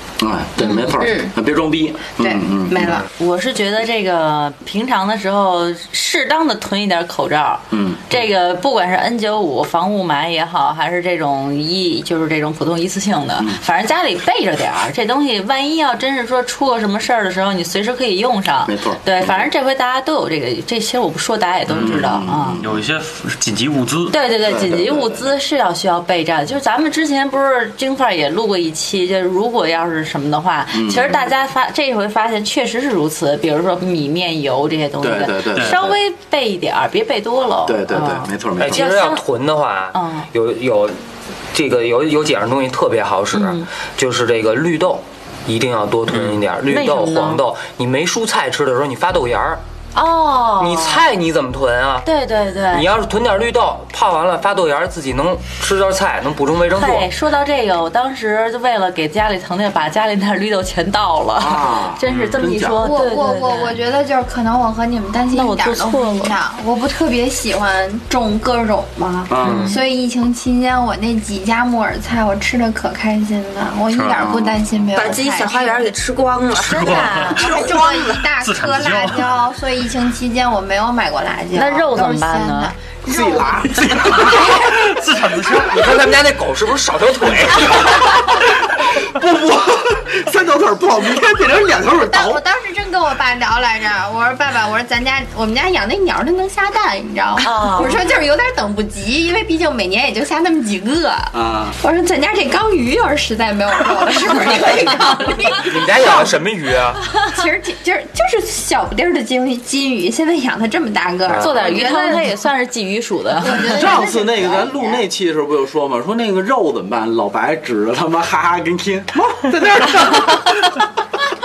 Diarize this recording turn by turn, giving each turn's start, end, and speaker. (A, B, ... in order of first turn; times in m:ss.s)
0:00.2-0:03.0 A
0:02.2-0:03.1 B
0:03.2-0:22.6 C
0:07.7-0:08.0 A
0:18.6-0:19.5 A
0:21.7-0:22.0 D
0:21.7-0:22.9 A
0:22.6-0:24.2 D
0:24.1-0:39.2 C
0:24.4-0:25.3 A
0:30.7-0:31.3 A
0:35.0-0:36.0 A
0:35.5-0:35.9 D
0:37.6-0:38.8 A
0:38.6-0:41.0 E
0:39.9-0:40.3 C
0:41.5-0:49.6 E
0:43.3-0:43.7 C
0:46.1-0:46.4 D
0:46.7-0:47.4 C
0:49.9-0:51.0 C
0:50.6-0:52.1 E
0:52.0-0:52.8 C
0:52.7-0:57.1 E
0:56.7-1:03.7 C
1:01.4-1:02.9 A
1:02.1-1:02.4 D
1:02.8-1:15.9 B
1:05.3-1:06.4 C
1:09.3-1:09.7 A
1:09.4-1:09.8 C
1:13.9-1:14.3 D
1:14.1-1:14.6 A
1:14.9-1:17.9 F
1:16.6-1:17.4 D
1:16.7-1:24.4 B
1:17.4-1:17.9 A
1:18.2-1:19.4 D
1:21.5-1:22.7 C
1:23.1-1:24.7 A
1:23.7-1:26.0 D
1:25.7-1:28.5 E
1:27.6-1:28.4 A
1:28.9-1:32.4 A
1:31.8-1:46.3 B
1:37.4-1:38.0 C
1:41.3-1:41.8 A
1:45.5-1:47.0 E
1:47.1-1:52.3 B
1:51.3-1:51.8 E
1:51.4-1:53.7 C
1:53.4-1:55.0 B
1:53.5-2:00.8 A